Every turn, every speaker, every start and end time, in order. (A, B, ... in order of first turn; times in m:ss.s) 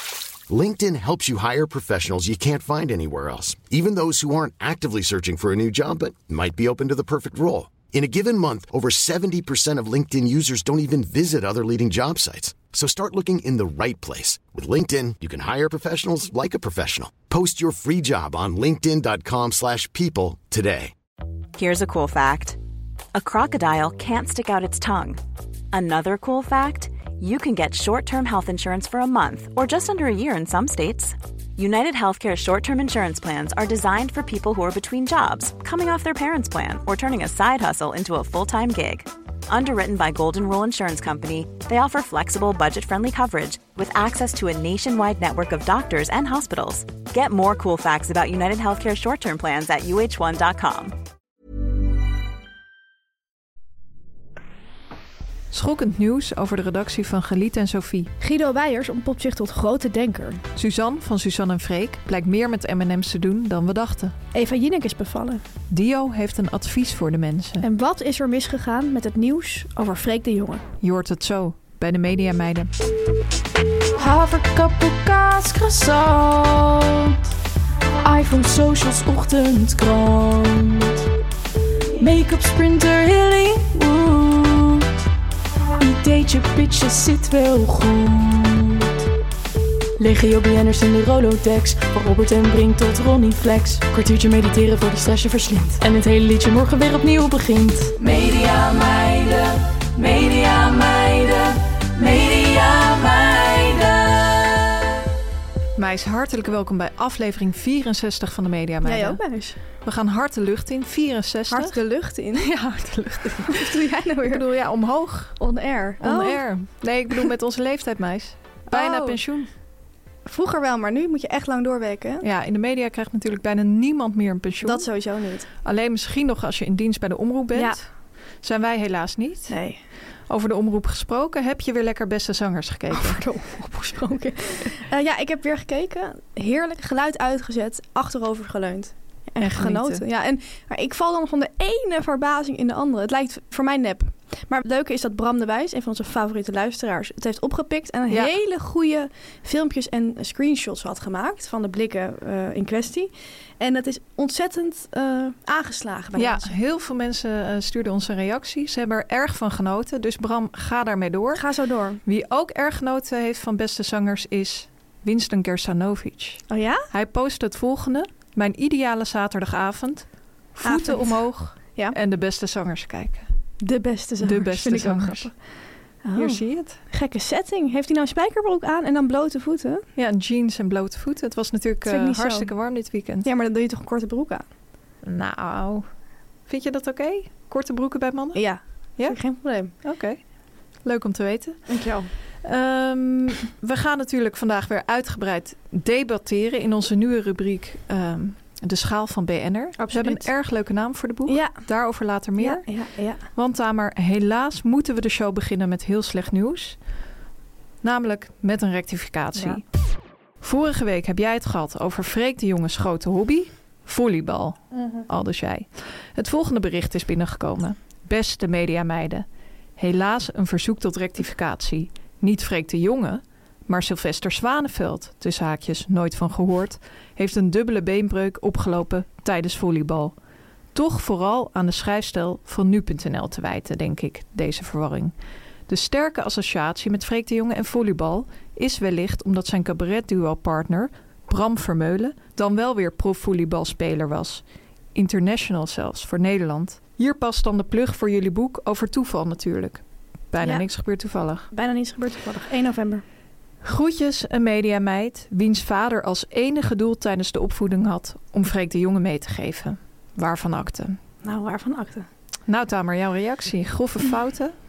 0:00.5-0:20.9 A
0:21.6-0:22.6 B
0:23.1-0:25.2 B
0:25.7-0:51.0 B
0:55.5-0:58.1 C
0:58.2-1:00.4 D
1:00.6-1:04.2 C
1:04.3-1:05.4 D
1:05.7-1:07.7 C
1:07.6-1:10.6 D
1:10.8-1:12.7 C
1:14.0-1:17.2 E
1:18.0-1:21.0 E
1:22.0-1:24.9 E
1:25.8-1:29.0 E
1:30.0-1:44.7 E
1:45.8-1:49.2 C
1:48.8-1:49.6 D
1:49.8-1:51.8 C
1:51.5-1:52.5 D
1:52.3-1:55.4 C
1:53.4-1:54.4 D
1:55.4-1:56.5 D
1:56.0-1:59.5 C
1:58.7-1:59.2 D
2:00.3-2:02.3 D
2:02.2-2:04.9 C
2:04.6-2:05.5 D
2:05.6-2:07.9 C
2:07.5-2:07.8 D
2:08.4-2:09.6 C
2:09.5-2:09.8 D
2:10.3-2:13.2 C
2:12.9-2:36.5 D
2:19.4-2:20.0 C
2:36.2-2:41.4 C
2:41.4-2:42.0 D
2:42.0-2:53.3 C
2:46.5-2:46.9 D
2:50.6-2:52.0 D
2:53.6-2:55.3 D
2:54.2-2:55.3 C
2:56.0-2:59.8 D
2:56.2-2:56.8 C
3:00.0-3:03.3 C
3:01.8-3:02.5 D
3:03.2-3:04.5 D
3:05.0-3:05.9 C
3:06.5-3:08.4 C
3:08.4-3:09.7 D
3:09.8-3:10.2 C
3:10.8-3:11.7 C
3:11.7-3:12.1 D
3:12.4-3:22.7 C
3:19.8-3:20.3 D
3:21.3-3:21.6 D
3:22.4-3:23.2 D
3:23.3-3:26.8 C
3:27.8-3:29.6 C
3:30.4-3:39.3 C
3:34.7-3:35.1 D
3:39.8-3:50.2 C
3:50.7-3:55.1 C
3:55.7-4:11.5 C
4:11.5-4:13.0 D
4:13.6-4:21.0 C
4:21.2-4:22.1 D
4:22.5-4:24.6 C